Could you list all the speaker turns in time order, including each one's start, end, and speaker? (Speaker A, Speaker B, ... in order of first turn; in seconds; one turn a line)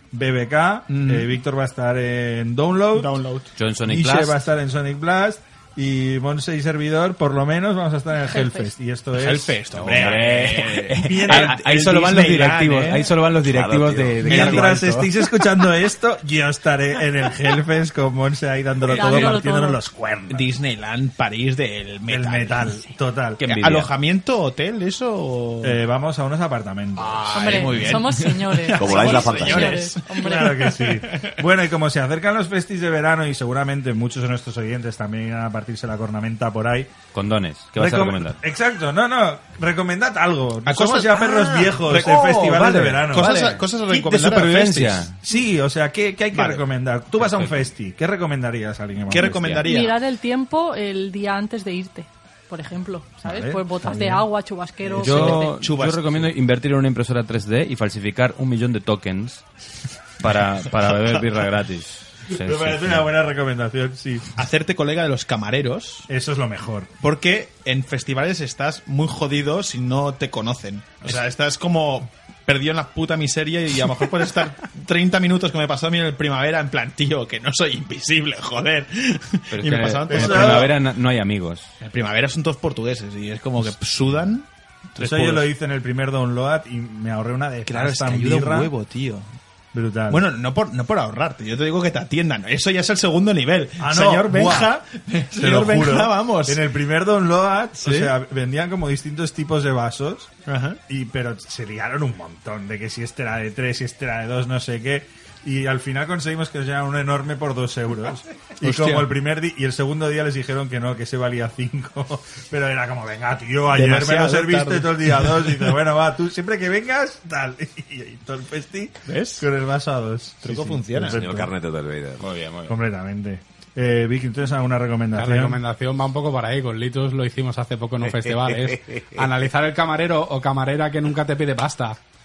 Speaker A: 0.1-3.2
Speaker B: 0.9-1.3
Speaker B: 2.9-3.5
Speaker C: 3.6-4.4
Speaker A: 3.9-10.3
Speaker D: 8.3-8.7
Speaker B: 9.1-13.1
Speaker C: 9.8-15.1
Speaker A: 11.0-12.3
Speaker E: 13.4-14.3
Speaker A: 14.2-20.5
Speaker B: 14.3-14.8
Speaker D: 18.9-19.8
Speaker B: 19.0-19.3
Speaker B: 20.3-22.7
Speaker A: 22.1-23.4
Speaker B: 23.4-25.8
Speaker C: 23.4-23.9
Speaker A: 25.6-28.0
Speaker B: 27.0-31.4
Speaker D: 27.3-30.8
Speaker E: 28.8-29.9
Speaker A: 30.1-36.9
Speaker C: 37.1-38.4
Speaker A: 37.8-43.5
Speaker B: 40.6-45.1
Speaker C: 43.0-45.1
Speaker A: 45.2-49.6
Speaker B: 46.3-46.6
Speaker C: 47.2-47.7
Speaker B: 49.1-50.0
Speaker D: 49.6-55.5
Speaker A: 53.2-54.2
Speaker B: 54.8-56.3
Speaker C: 55.0-59.4
Speaker C: 60.2-63.1
Speaker A: 62.3-64.3
Speaker B: 64.4-66.1
Speaker A: 66.1-66.9
Speaker B: 67.0-80.7
Speaker C: 79.5-81.7
Speaker A: 80.1-80.7
Speaker B: 81.8-85.5
Speaker A: 85.0-88.7
Speaker B: 87.7-89.3
Speaker A: 89.7-90.3
Speaker B: 90.1-96.6
Speaker A: 93.8-94.8
Speaker A: 95.4-100.3
Speaker B: 97.8-98.1
Speaker B: 100.5-100.8
Speaker A: 100.9-121.5
Speaker B: 108.6-109.1
Speaker B: 113.7-115.6
Speaker B: 119.1-119.5
Speaker B: 120.4-121.2
Speaker E: 121.1-122.3
Speaker C: 122.2-122.8
Speaker A: 122.7-125.6
Speaker F: 125.1-132.0
Speaker E: 128.1-129.2